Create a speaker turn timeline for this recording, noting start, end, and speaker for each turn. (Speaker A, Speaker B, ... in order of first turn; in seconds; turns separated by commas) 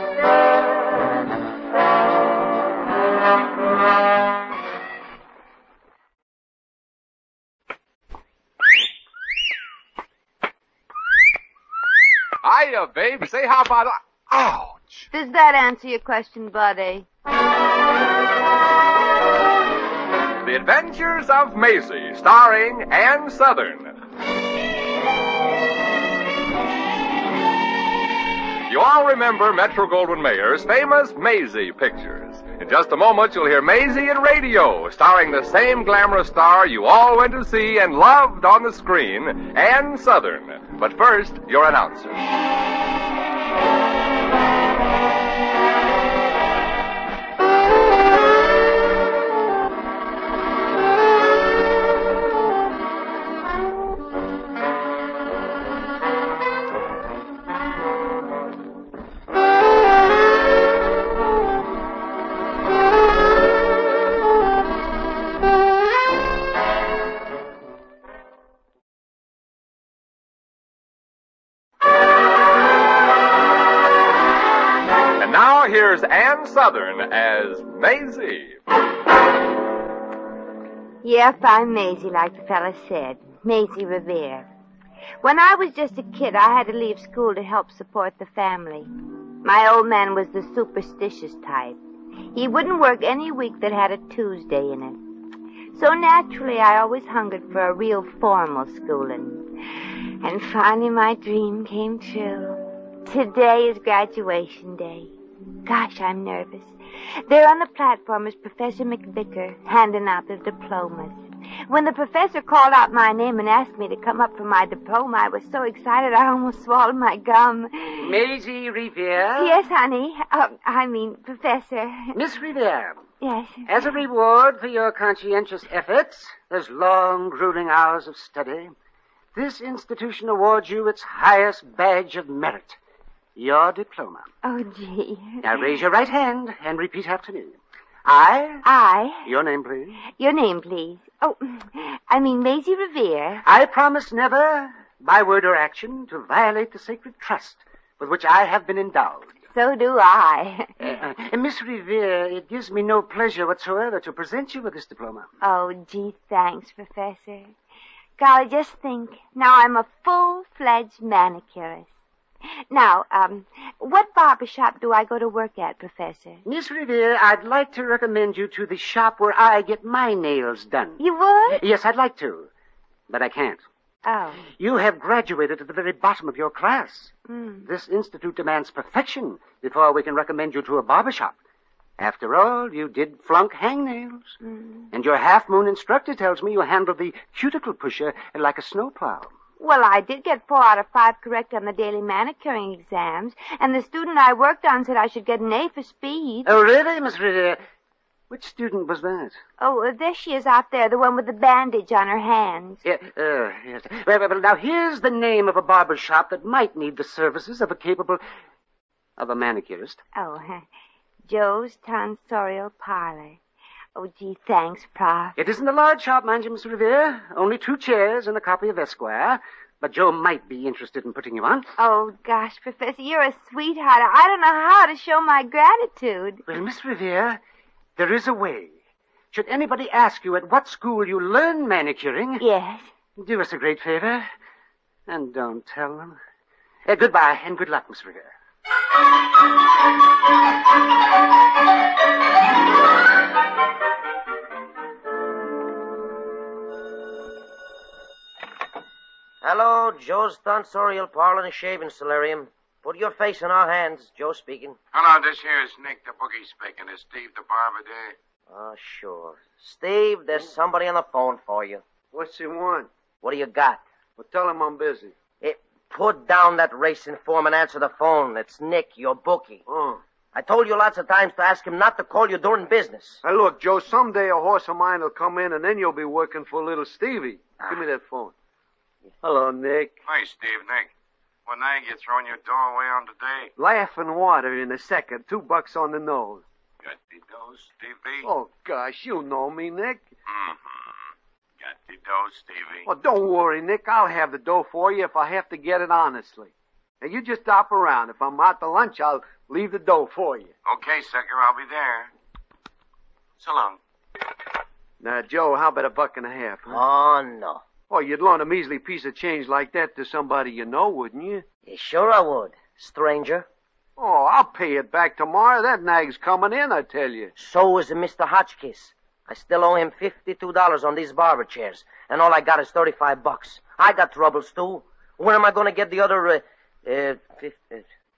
Speaker A: 12.4-15.1, Speaker B: 15.1-17.1, Speaker A: 20.4-24.0, Speaker A: 28.7-42.3, Speaker A: 75.2-78.6, Speaker B: 81.0-84.5, Speaker B: 85.2-88.9, Speaker B: 89.4-91.8, Speaker B: 92.3-95.0, Speaker B: 95.7-99.5, Speaker B: 100.2-105.1, Speaker B: 105.7-106.8, Speaker B: 107.3-118.2, Speaker C: 118.0-119.6, Speaker B: 119.4-122.1, Speaker C: 122.2-123.0, Speaker B: 123.2-124.0, Speaker C: 123.7-128.7, Speaker C: 129.3-132.8, Speaker C: 133.4-134.3, Speaker B: 134.4-135.7, Speaker C: 135.4-138.6, Speaker B: 138.6-139.3, Speaker C: 139.2-140.0, Speaker B: 140.1-143.4, Speaker C: 143.4-149.3, Speaker B: 149.5-150.7, Speaker C: 150.8-155.3, Speaker B: 155.4-157.5, Speaker B: 158.2-161.9, Speaker B: 162.7-166.4, Speaker C: 166.5-171.0, Speaker B: 171.0-171.6, Speaker C: 171.5-172.5, Speaker C: 173.1-173.6, Speaker B: 174.1-174.4, Speaker C: 174.6-177.1, Speaker B: 177.3-177.7, Speaker C: 177.7-181.3, Speaker C: 182.0-184.3, Speaker B: 184.4-184.9, Speaker C: 184.9-189.3, Speaker B: 189.6-196.6, Speaker C: 196.4-197.6, Speaker C: 198.3-199.4, Speaker B: 199.6-202.8, Speaker C: 202.8-208.2, Speaker C: 209.2-210.0, Speaker B: 210.2-210.7, Speaker B: 211.3-213.4, Speaker B: 213.9-215.4, Speaker C: 215.4-221.7, Speaker B: 221.8-226.4, Speaker C: 226.5-227.4, Speaker C: 228.0-228.8, Speaker C: 229.3-232.4, Speaker B: 232.4-232.9, Speaker C: 233.2-234.3, Speaker C: 235.1-236.2, Speaker C: 236.9-238.3, Speaker D: 249.4-254.8, Speaker E: 254.9-258.1, Speaker D: 258.5-261.8, Speaker F: 262.1-262.9, Speaker D: 263.2-263.8, Speaker F: 264.2-265.1, Speaker D: 265.4-269.6, Speaker F: 269.7-270.0, Speaker D: 270.3-273.2, Speaker F: 273.2-278.3, Speaker F: 279.2-279.9, Speaker E: 280.1-280.9, Speaker E: 281.5-283.5, Speaker F: 283.6-286.4, Speaker E: 286.8-288.3, Speaker F: 288.2-290.1, Speaker E: 290.3-290.8, Speaker E: 291.6-292.9, Speaker F: 292.9-300.5, Speaker E: 300.7-302.1, Speaker E: 303.4-303.8, Speaker F: 305.0-306.8, Speaker D: 306.7-307.6, Speaker F: 307.9-311.5, Speaker D: 311.7-313.5, Speaker F: 314.0-317.3, Speaker D: 317.4-327.9